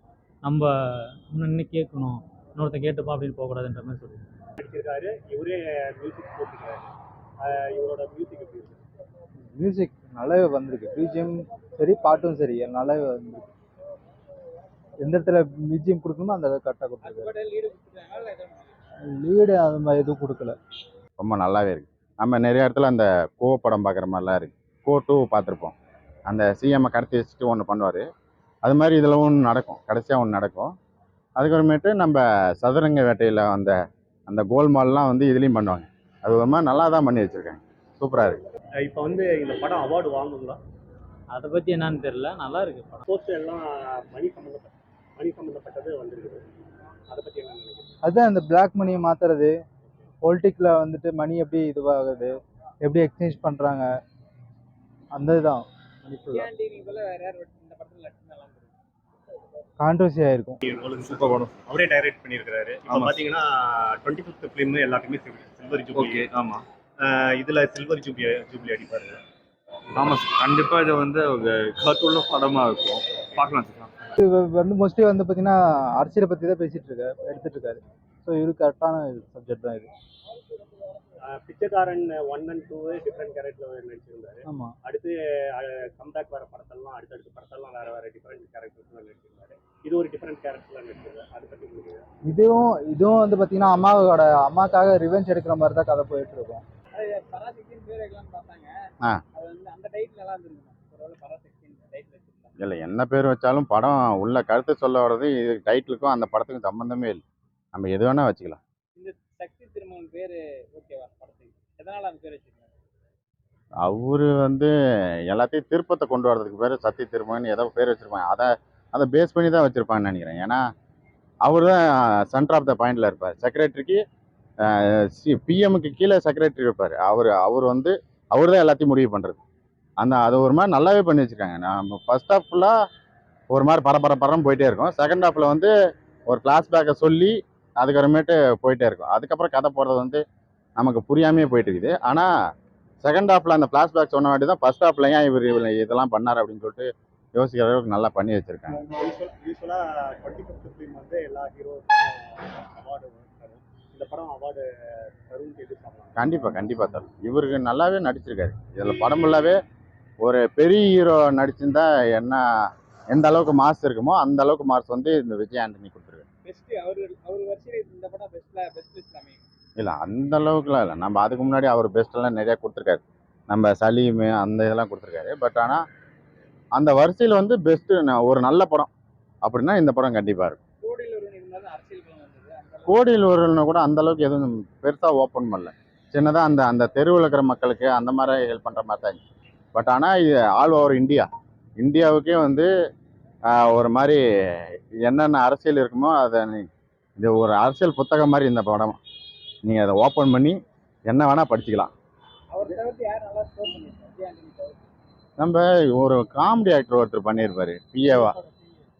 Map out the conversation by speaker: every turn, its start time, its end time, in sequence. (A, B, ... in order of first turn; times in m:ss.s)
0:00.4-0:04.2 A
0:04.6-0:06.9 B
0:07.4-0:08.8 B
0:09.5-0:13.5 C
0:15.0-0:17.3 C
0:17.0-0:18.7 D
0:19.0-0:20.6 C
0:21.2-0:25.7 E
0:26.3-0:28.0 E
0:28.6-0:30.7 E
0:31.4-0:33.7 E
0:34.3-0:38.4 E
0:38.8-0:40.6 B
0:41.3-0:43.0 A
0:43.1-0:46.4 B
0:47.1-0:48.0 B
0:48.0-0:49.5 C
0:50.2-0:53.9 C
0:55.1-0:56.5 C
0:56.3-0:58.7 D
0:59.8-1:00.6 C
1:00.6-1:06.3 B
1:01.0-1:01.5 F
1:02.9-1:03.1 F
1:05.9-1:06.6 F
1:07.0-1:09.2 B
1:09.9-1:13.9 F
1:14.2-1:19.9 C
1:21.2-1:32.0 B
1:24.5-1:24.7 C
1:32.3-1:36.6 C
1:36.9-1:38.7 D
1:39.3-1:42.6 D
1:42.6-1:47.2 E
1:47.7-1:48.6 E
1:49.0-1:52.7 D
1:53.8-1:54.7 E
1:55.3-2:00.6 E
2:01.4-2:04.0 E
2:04.6-2:09.4 E
2:10.0-2:12.7 E
2:13.5-2:15.7 E
2:16.3-2:20.2 E
2:20.8-2:22.3 E
2:23.0-2:28.8 E
2:28.9-2:36.2 B
2:36.2-2:39.6 E
2:40.2-2:42.4 E
2:43.1-2:46.2 E
2:46.4-2:49.4 D
2:49.8-2:55.8 E
2:56.7-2:58.9 E
2:59.4-3:00.6 E
3:00.8-3:03.2 D
3:02.8-3:09.2 E
3:09.7-3:12.7 E
3:13.4-3:19.0 E
3:19.6-3:21.9 E
3:22.5-3:24.8 D
3:25.4-3:28.4 E
3:28.0-3:28.6 D